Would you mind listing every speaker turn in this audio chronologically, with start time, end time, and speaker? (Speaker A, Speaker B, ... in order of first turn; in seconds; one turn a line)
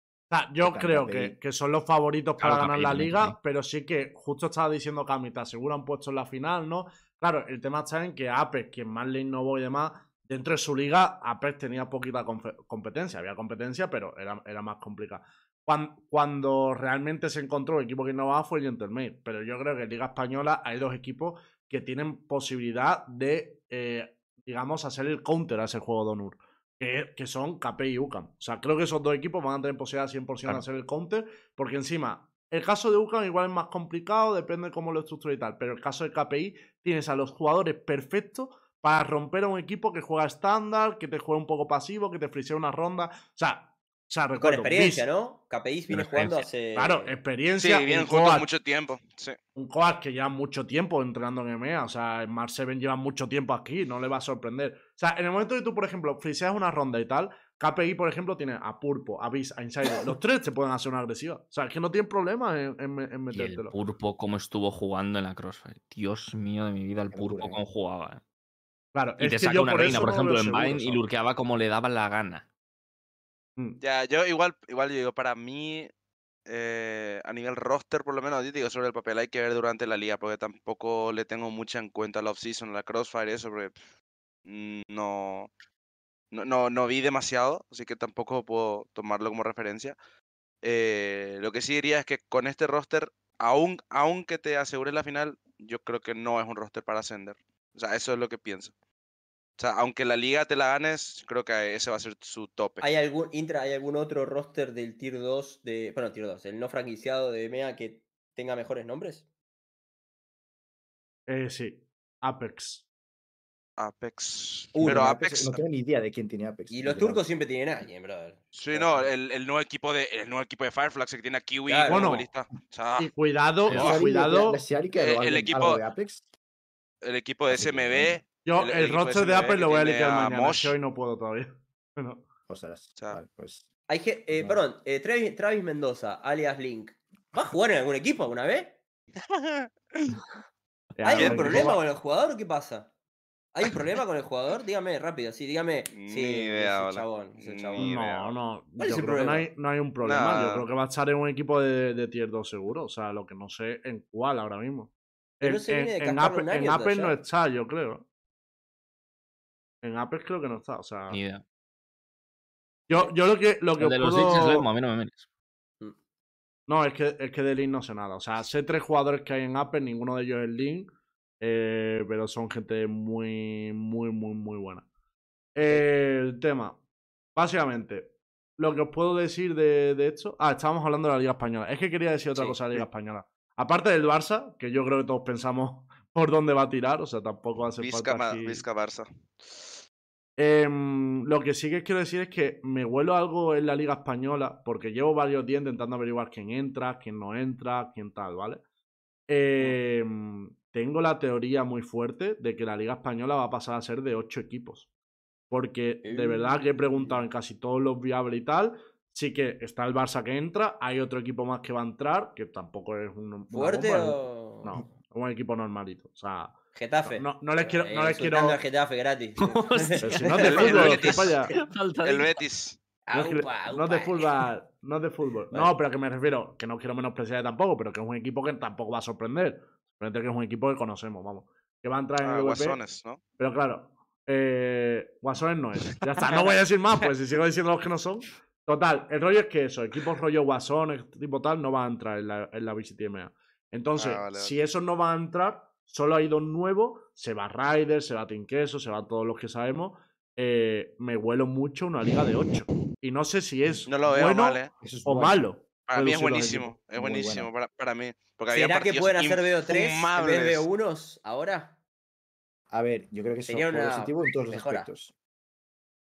Speaker A: 0.3-45.1
Speaker B: 0.6-1.4
Speaker C: 2.4-3.4
Speaker D: 44.4-47.2
Speaker A: 45.9-48.5
Speaker E: 47.6-49.4
Speaker A: 49.5-63.8
Speaker C: 63.3-68.2
Speaker B: 67.1-67.6
Speaker A: 68.9-71.0
Speaker C: 69.2-72.5
Speaker E: 73.8-75.9
Speaker E: 76.5-83.7
Speaker E: 84.5-85.5
Speaker E: 86.3-90.0
Speaker E: 90.6-98.7
Speaker E: 99.6-102.8
Speaker D: 102.8-109.2
Speaker A: 111.3-112.9
Speaker E: 113.8-115.6
Speaker B: 114.8-117.2
Speaker D: 116.7-119.1
Speaker E: 118.5-123.1
Speaker D: 121.7-122.1
Speaker A: 121.9-122.3
Speaker A: 123.0-124.6
Speaker C: 123.7-124.0
Speaker E: 123.7-124.0
Speaker B: 123.7-126.2
Speaker E: 125.0-125.8
Speaker E: 127.0-130.8
Speaker B: 127.5-128.3
Speaker A: 128.4-132.2
Speaker B: 132.5-133.7
Speaker D: 133.9-138.8
Speaker B: 134.3-134.6
Speaker E: 139.3-140.2
Speaker A: 141.0-141.8
Speaker D: 141.0-142.9
Speaker E: 141.1-141.7
Speaker D: 143.5-147.9
Speaker E: 145.9-148.4
Speaker A: 147.8-158.0
Speaker D: 148.8-149.5
Speaker E: 150.0-150.7
Speaker D: 155.4-157.2
Speaker A: 159.8-161.2
Speaker C: 161.1-161.4
Speaker A: 162.9-164.7
Speaker C: 163.8-165.2
Speaker A: 166.7-174.8
Speaker A: 175.5-176.8
Speaker A: 177.3-188.6
Speaker D: 182.3-182.8
Speaker E: 187.8-189.7
Speaker A: 190.4-198.6
Speaker A: 199.3-204.9
Speaker A: 205.5-218.6
Speaker D: 206.0-207.2
Speaker D: 213.5-214.8
Speaker D: 216.7-221.6
Speaker C: 219.4-222.4
Speaker A: 220.0-221.5
Speaker E: 220.4-221.3
Speaker E: 222.0-222.8
Speaker D: 223.1-224.3
Speaker A: 223.1-232.8
Speaker E: 232.2-233.2
Speaker A: 233.4-256.7
Speaker E: 236.2-236.5
Speaker E: 244.0-244.5
Speaker E: 253.9-254.7
Speaker B: 254.8-255.5
Speaker E: 255.9-260.7
Speaker B: 256.8-257.5
Speaker D: 258.5-261.7
Speaker B: 262.7-265.1
Speaker D: 263.5-264.9